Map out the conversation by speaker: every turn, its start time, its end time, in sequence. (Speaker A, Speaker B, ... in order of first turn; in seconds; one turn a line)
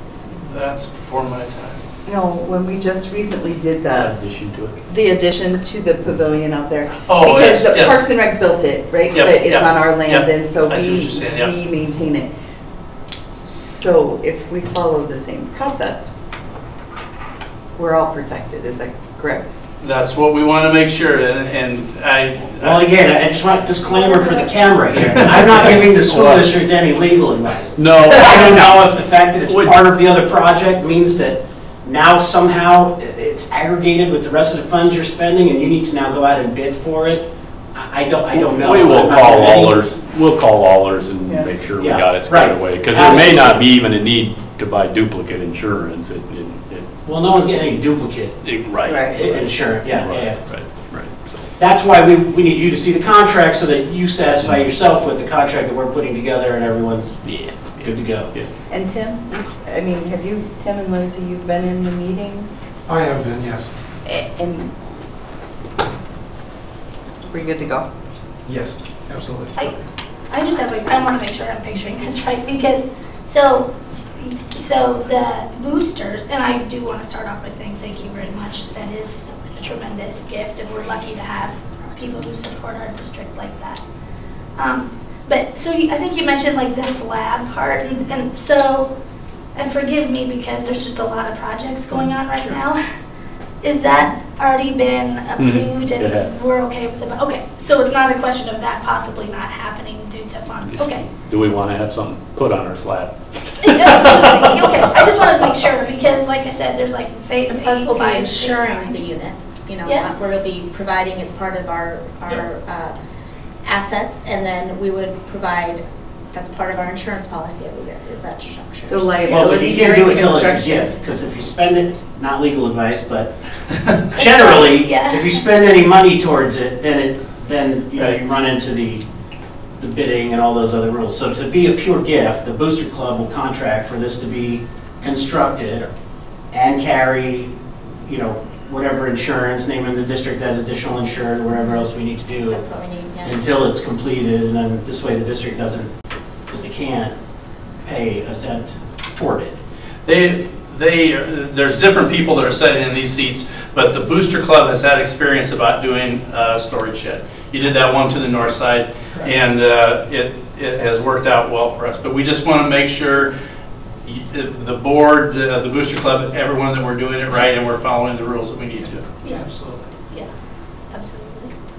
Speaker A: 0.5-1.8
Speaker B: 2.0-4.1
Speaker C: 4.0-4.8
Speaker B: 4.9-12.3
Speaker A: 7.1-8.0
Speaker A: 9.1-11.5
Speaker B: 13.4-16.1
Speaker B: 17.8-19.6
Speaker A: 19.8-22.6
Speaker D: 22.6-39.8
Speaker E: 24.0-24.6
Speaker C: 25.7-26.5
Speaker C: 27.8-28.8
Speaker C: 29.4-29.8
Speaker C: 38.3-46.9
Speaker D: 41.8-43.6
Speaker D: 47.0-48.5
Speaker C: 48.4-51.5
Speaker B: 48.9-49.2
Speaker D: 49.1-50.4
Speaker D: 51.6-57.2
Speaker C: 57.2-58.5
Speaker D: 57.8-58.3
Speaker B: 58.7-62.7
Speaker F: 62.9-63.7
Speaker B: 64.1-64.7
Speaker B: 67.3-67.9
Speaker F: 68.5-69.6
Speaker G: 70.3-83.8
Speaker G: 84.6-88.9
Speaker G: 89.5-92.8
Speaker G: 93.6-101.1
Speaker C: 95.4-96.3
Speaker C: 100.7-104.8
Speaker G: 103.6-109.0
Speaker E: 107.5-113.0
Speaker G: 109.8-110.1
Speaker E: 113.6-119.4
Speaker B: 118.8-120.9
Speaker D: 119.3-123.3
Speaker D: 124.1-129.1
Speaker G: 124.2-125.4
Speaker D: 129.8-135.9
Speaker D: 136.5-137.5
Speaker D: 138.1-142.6
Speaker E: 142.5-143.6
Speaker D: 143.2-145.9
Speaker D: 146.5-147.2
Speaker D: 147.8-149.6
Speaker A: 150.1-163.3
Speaker A: 164.1-169.1
Speaker G: 169.2-169.5
Speaker F: 169.5-169.9
Speaker G: 170.9-171.5